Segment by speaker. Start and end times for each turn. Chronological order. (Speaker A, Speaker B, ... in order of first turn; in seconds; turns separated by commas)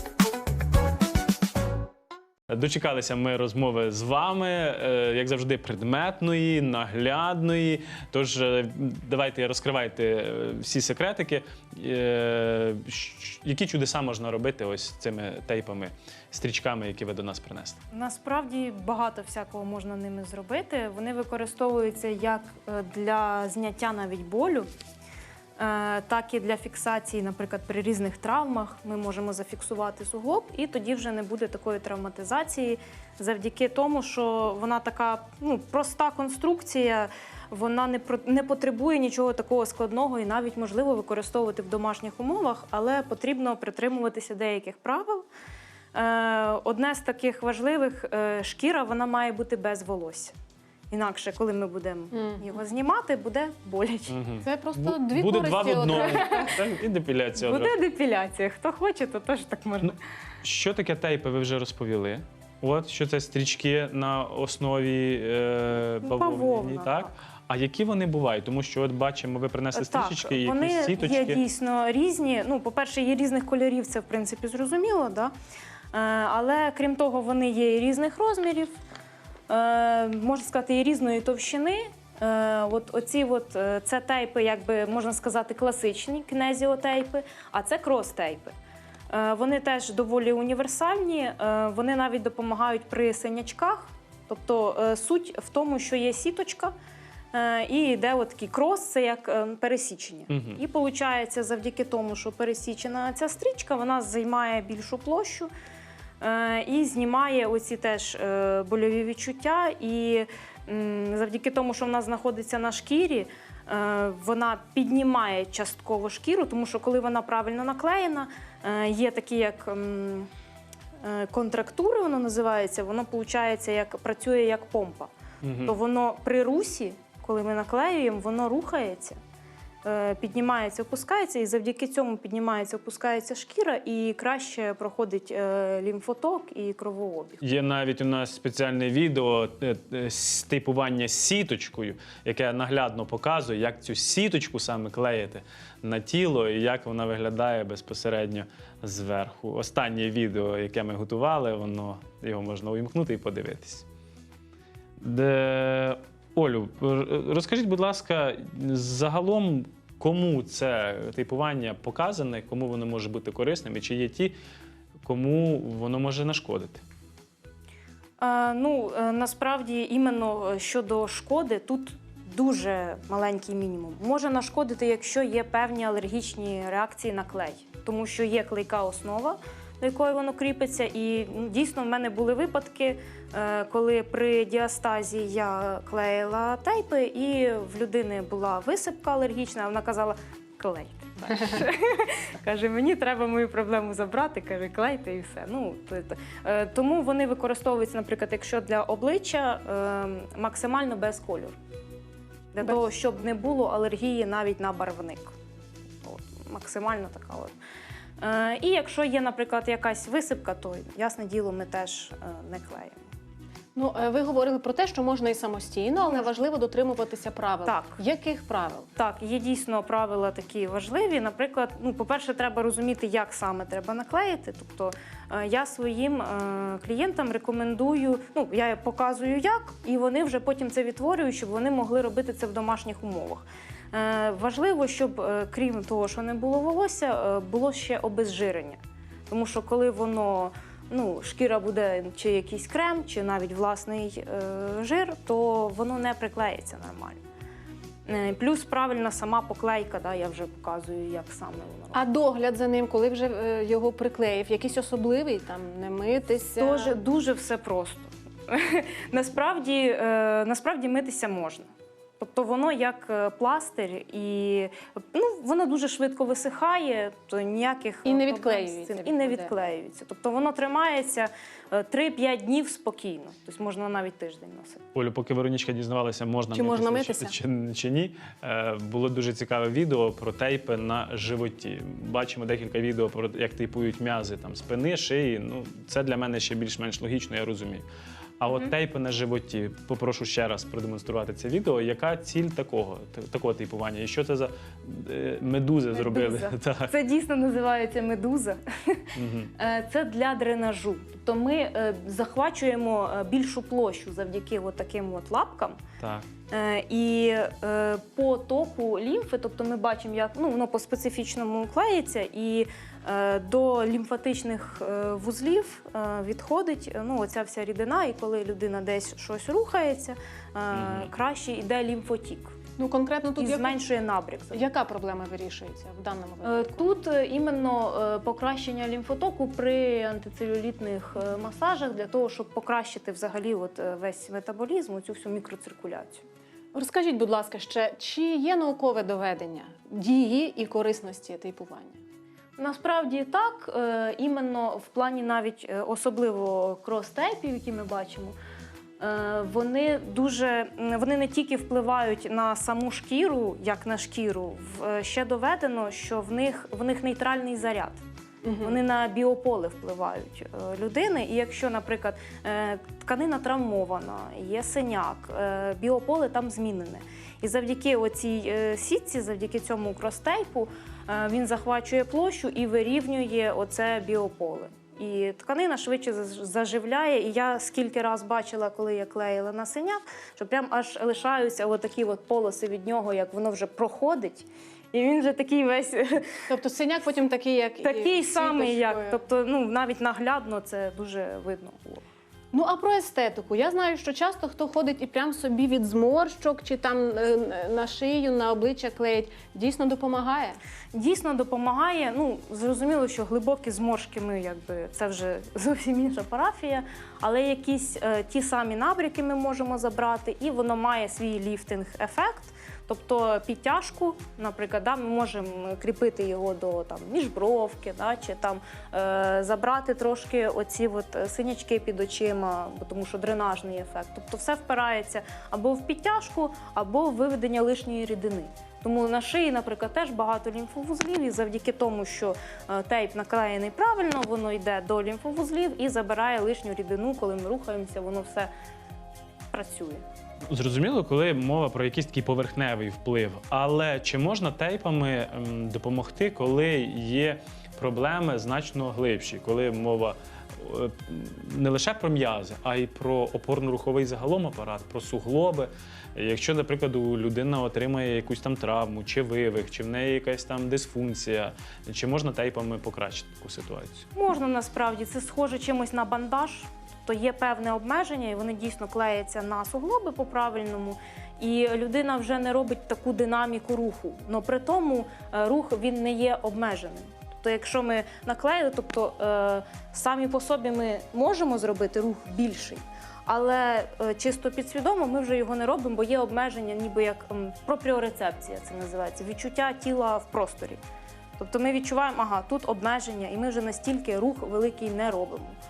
Speaker A: 2.5-17.8, Speaker B: 17.9-24.7, Speaker B: 25.6-45.2, Speaker B: 45.9-50.4, Speaker B: 50.9-54.2, Speaker C: 52.2-52.4, Speaker A: 54.1-57.7, Speaker C: 54.4-56.3, Speaker B: 55.8-56.5, Speaker B: 57.4-60.0, Speaker A: 59.8-71.4, Speaker B: 66.0-67.2, Speaker B: 69.7-75.3, Speaker B: 75.9-78.8, Speaker B: 79.5-88.5, Speaker B: 89.1-96.7, Speaker B: 97.3-105.5, Speaker A: 100.3-100.6, Speaker B: 106.2-120.3, Speaker B: 121.0-125.1, Speaker A: 125.4-125.8, Speaker B: 125.6-129.2, Speaker B: 129.8-137.4, Speaker A: 137.4-153.8, Speaker A: 155.0-164.3, Speaker A: 165.0-166.8, Speaker B: 168.2-201.6, Speaker B: 202.5-205.3, Speaker B: 206.0-207.5, Speaker B: 208.2-213.0, Speaker C: 213.8-218.8, Speaker B: 217.6-218.0, Speaker B: 218.9-238.8, Speaker B: 239.3-247.2, Speaker B: 248.1-252.0, Speaker C: 251.9-256.9, Speaker B: 256.6-261.7, Speaker B: 262.2-274.8, Speaker C: 268.1-269.5, Speaker A: 274.9-287.9, Speaker C: 276.5-277.4, Speaker A: 288.4-296.9, Speaker B: 295.9-305.8, Speaker A: 299.1-299.5, Speaker A: 306.0-306.2, Speaker B: 306.5-322.6, Speaker A: 320.7-321.1, Speaker C: 322.8-323.8, Speaker B: 323.4-324.6, Speaker C: 324.5-326.9, Speaker B: 326.4-336.2, Speaker C: 336.7-342.0, Speaker B: 342.6-348.4, Speaker B: 349.0-358.0, Speaker C: 358.4-358.8, Speaker B: 358.6-386.4, Speaker C: 386.5-389.2, Speaker B: 387.8-392.1, Speaker C: 392.5-400.6, Speaker B: 400.9-438.5, Speaker B: 439.5-440.0, Speaker A: 440.5-464.1, Speaker B: 464.1-490.8, Speaker B: 491.4-495.6